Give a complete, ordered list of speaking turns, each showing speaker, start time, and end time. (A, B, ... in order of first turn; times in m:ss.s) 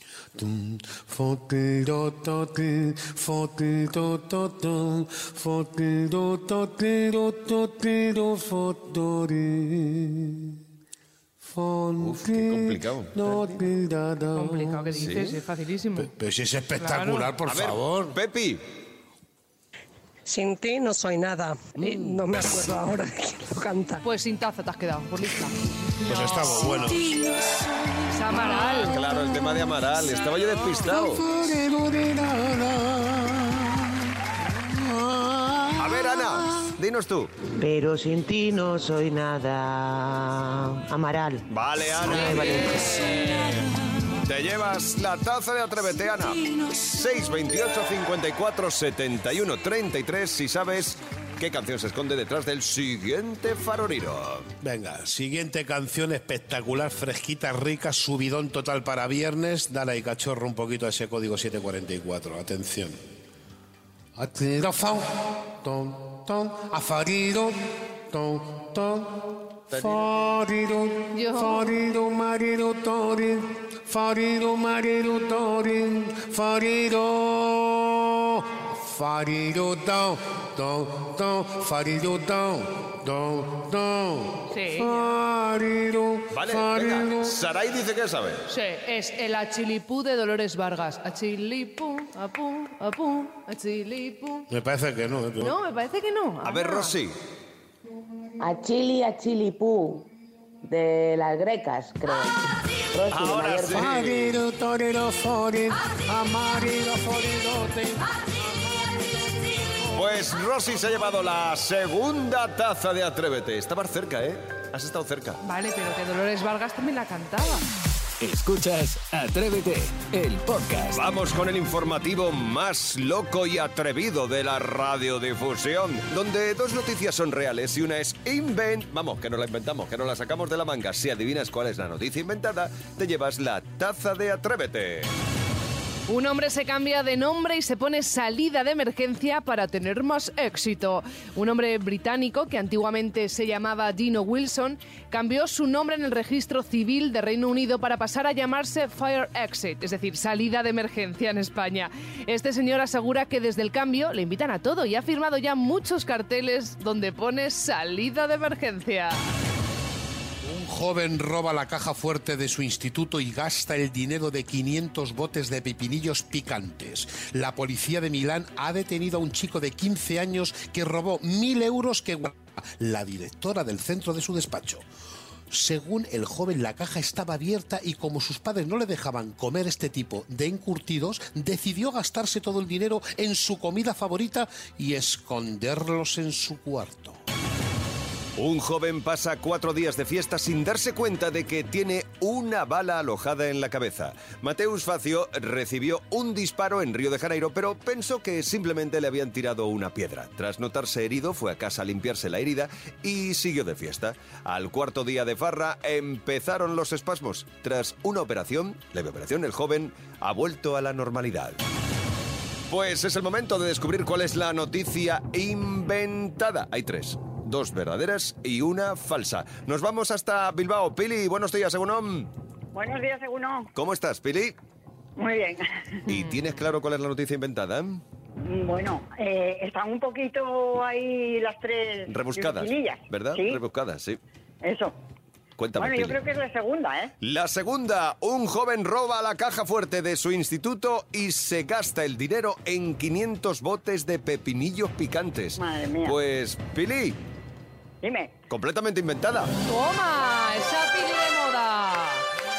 0:00.3-0:10.6 A
0:11.4-0:15.3 A
0:12.0-0:13.1 B
0:14.3-0:16.1 C
0:15.0-0:15.3 B
0:16.0-0:18.2 A
0:16.8-0:17.3 C
0:17.4-0:18.6 B
0:20.2-0:24.0 D
0:21.8-0:22.2 B
0:24.0-0:25.5 C
0:26.0-0:27.2 A
0:28.1-0:29.0 C
0:28.8-0:31.2 B
0:30.8-0:33.9 A
0:34.5-0:36.0 A
0:35.7-0:37.3 B
0:37.6-0:39.5 E
0:41.5-0:43.6 B
0:42.0-0:42.7 E
0:44.2-0:54.5 B
0:54.6-1:03.0 A
1:04.2-1:07.5 A
1:08.1-1:27.4 A
1:11.1-1:11.6 C
1:24.5-1:25.1 C
1:26.3-1:28.4 B
1:28.5-1:34.5 C
1:34.5-1:35.5 A
1:35.4-1:36.9 C
1:36.4-1:37.2 B
1:38.4-1:40.1 F
1:40.6-1:42.4 F
1:42.9-1:43.8 F
1:43.1-1:44.3 B
1:43.7-1:50.2 A
1:49.9-1:55.4 B
1:55.4-1:57.7 C
1:58.2-2:01.0 G
2:00.9-2:15.1 B
2:16.1-2:39.2 C
2:40.4-2:54.8 A
2:55.5-3:07.2 A
3:08.4-3:31.6 B
3:32.7-3:42.3 B
3:42.7-3:43.7 H
3:43.7-3:44.6 B
3:45.2-3:45.7 H
3:46.0-3:48.0 B
3:48.4-3:53.6 H
3:52.1-3:54.2 B
3:54.6-3:54.9 H
3:55.6-3:56.2 B
3:55.8-3:57.1 H
3:57.2-4:07.2 B
4:05.6-4:06.2 H
4:08.0-4:08.3 H
4:08.5-4:09.5 B
4:09.7-4:12.2 C